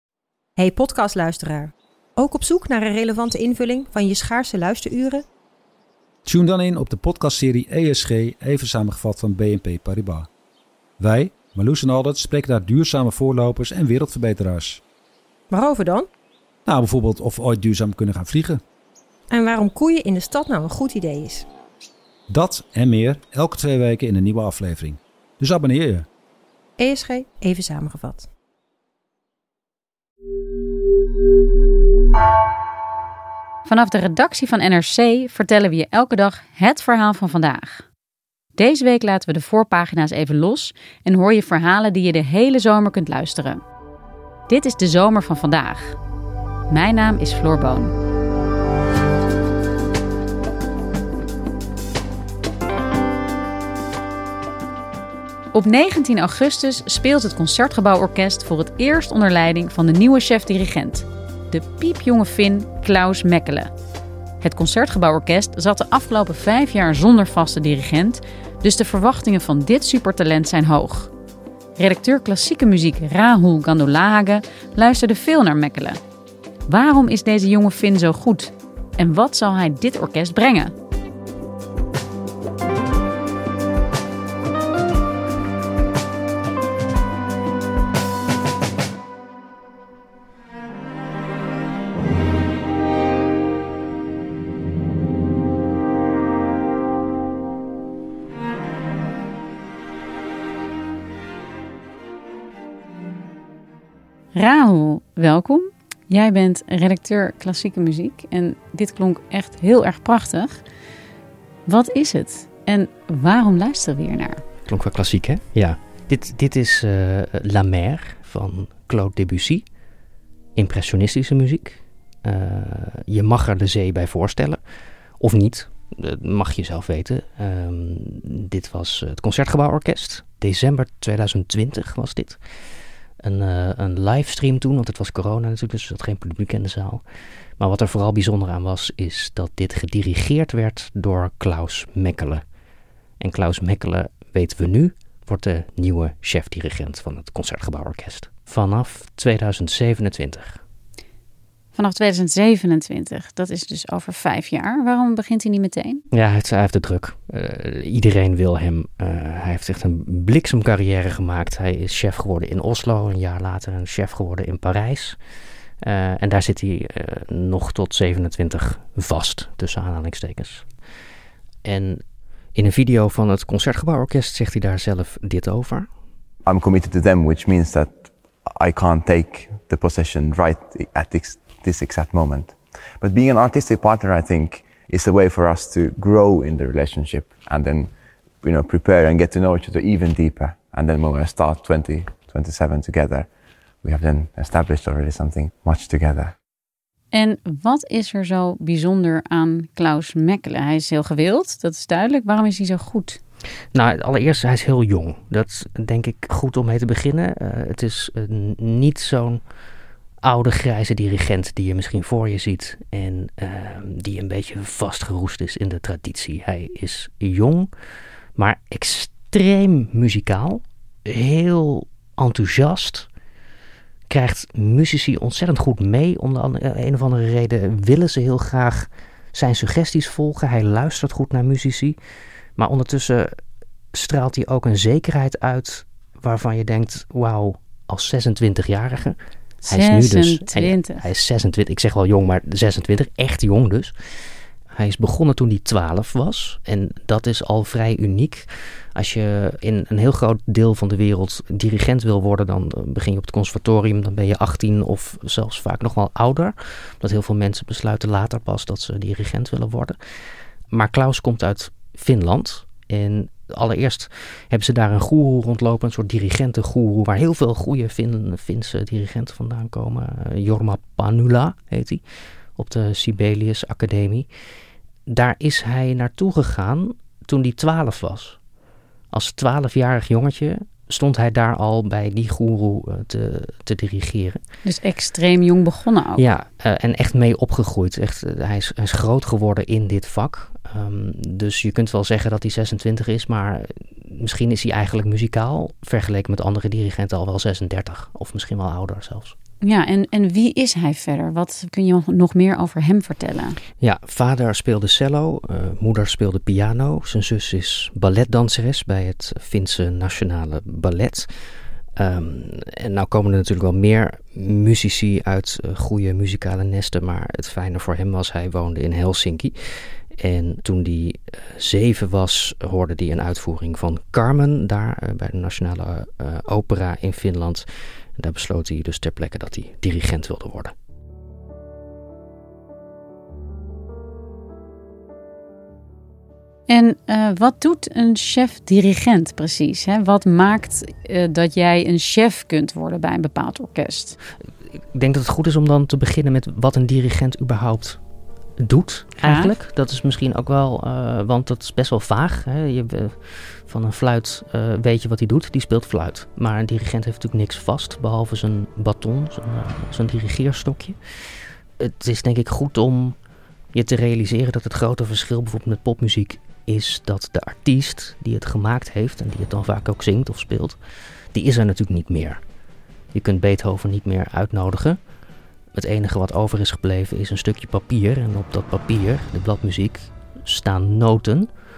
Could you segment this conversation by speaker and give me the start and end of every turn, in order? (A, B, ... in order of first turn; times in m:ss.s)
0:00.6-0:05.2 A
0:06.2-0:10.3 B
0:11.0-0:14.8 B
0:15.5-0:16.1 A
0:16.6-0:18.6 B
0:19.3-0:21.5 A
0:22.3-0:26.1 B
0:26.8-0:28.3 A
0:33.6-0:37.8 C
0:38.6-0:43.6 C
0:44.5-0:46.0 C
0:46.7-0:47.9 C
0:55.5-1:03.7 C
1:04.4-1:11.1 C
1:11.8-1:16.0 C
1:16.7-1:20.7 C
1:44.3-1:50.6 C
1:51.7-1:54.4 C
1:54.6-1:59.6 D
2:00.6-2:04.6 D
2:05.2-2:12.4 D
2:13.2-2:17.0 D
2:17.6-2:22.4 D
2:23.2-2:30.6 D
2:31.7-2:36.0 C
2:36.1-2:45.2 D
2:45.8-2:50.6 D
2:51.6-2:52.0 D
2:52.5-2:55.9 D
2:56.4-3:13.3 E
3:13.8-3:16.3 E
3:17.1-3:23.2 C
3:23.7-3:29.4 D
3:30.2-3:37.7 D
3:38.4-3:43.1 D
3:44.1-3:52.0 D
3:52.6-3:53.3 D
3:53.9-4:03.9 D
3:59.6-4:01.0 C
4:04.7-4:20.0 D
4:20.7-4:32.0 D
4:32.6-4:34.3 D
4:35.1-4:38.4 D
4:39.1-4:44.4 D
4:44.6-4:46.2 C
4:46.2-4:59.4 D
4:59.6-5:03.6 C
5:03.8-5:11.3 D
5:12.0-5:19.5 D
5:20.2-5:27.6 D
5:28.2-5:30.7 D
5:36.7-5:44.2 C
5:44.9-5:48.0 D
5:48.6-6:01.0 D
5:49.2-5:49.5 C
6:01.8-6:03.2 D
6:03.7-6:10.8 D
6:11.3-6:12.4 D
6:13.1-6:15.0 D
6:15.7-6:21.5 D